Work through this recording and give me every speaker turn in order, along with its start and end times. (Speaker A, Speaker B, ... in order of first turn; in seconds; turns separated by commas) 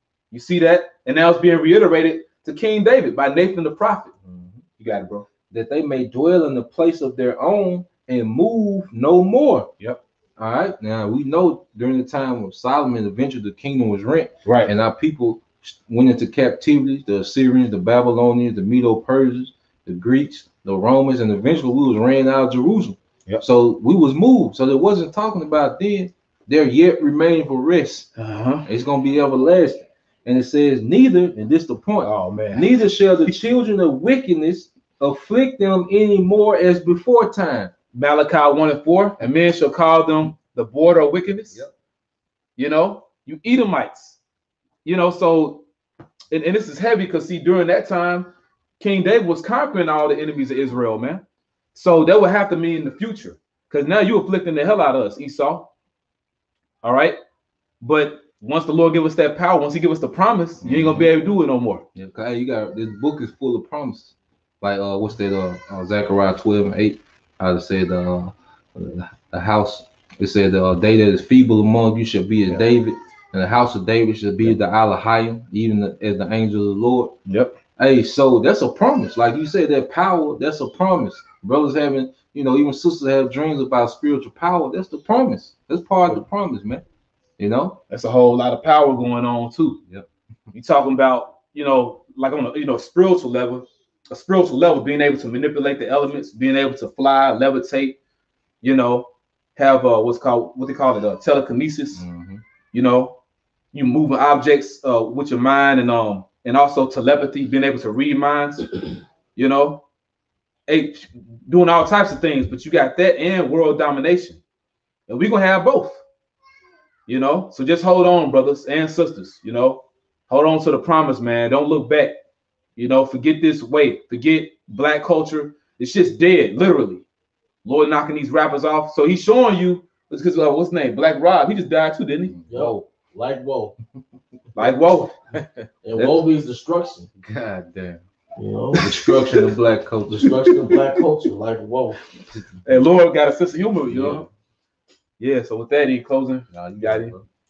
Speaker A: 0.3-4.1, Speaker B: 4.2-4.6, Speaker A: 4.8-5.3, Speaker B: 5.5-9.7, Speaker B: 10.4-28.1, Speaker A: 14.4-14.7, Speaker A: 28.2-28.6, Speaker B: 28.6-37.7, Speaker A: 32.0-32.7, Speaker A: 37.9-41.6, Speaker A: 42.6-44.2, Speaker A: 44.8-45.6, Speaker A: 46.3-48.3, Speaker A: 48.8-51.2, Speaker A: 51.7-55.7, Speaker A: 56.8-57.1, Speaker A: 57.8-61.8, Speaker B: 60.6-61.1, Speaker B: 61.9-77.1, Speaker A: 77.3-77.5, Speaker B: 77.8-86.8, Speaker B: 87.4-87.8, Speaker A: 87.9-89.8, Speaker A: 90.5-98.0, Speaker A: 98.6-102.0, Speaker B: 101.9-102.4, Speaker A: 102.7-103.2, Speaker A: 103.7-108.8, Speaker A: 109.3-109.8, Speaker A: 110.7-114.4, Speaker A: 115.1-116.0, Speaker A: 117.1-122.2, Speaker A: 122.8-127.0, Speaker A: 127.6-132.3, Speaker B: 132.3-132.9, Speaker C: 132.5-133.7, Speaker A: 134.5-135.1, Speaker B: 135.3-135.7, Speaker C: 135.8-137.1, Speaker B: 137.2-138.0, Speaker C: 138.3-139.2, Speaker B: 138.7-140.7, Speaker A: 138.8-139.5, Speaker C: 140.2-142.0, Speaker A: 140.4-140.8, Speaker B: 142.3-142.8, Speaker A: 142.6-144.2, Speaker B: 143.9-144.3, Speaker A: 145.2-147.1, Speaker B: 146.5-147.2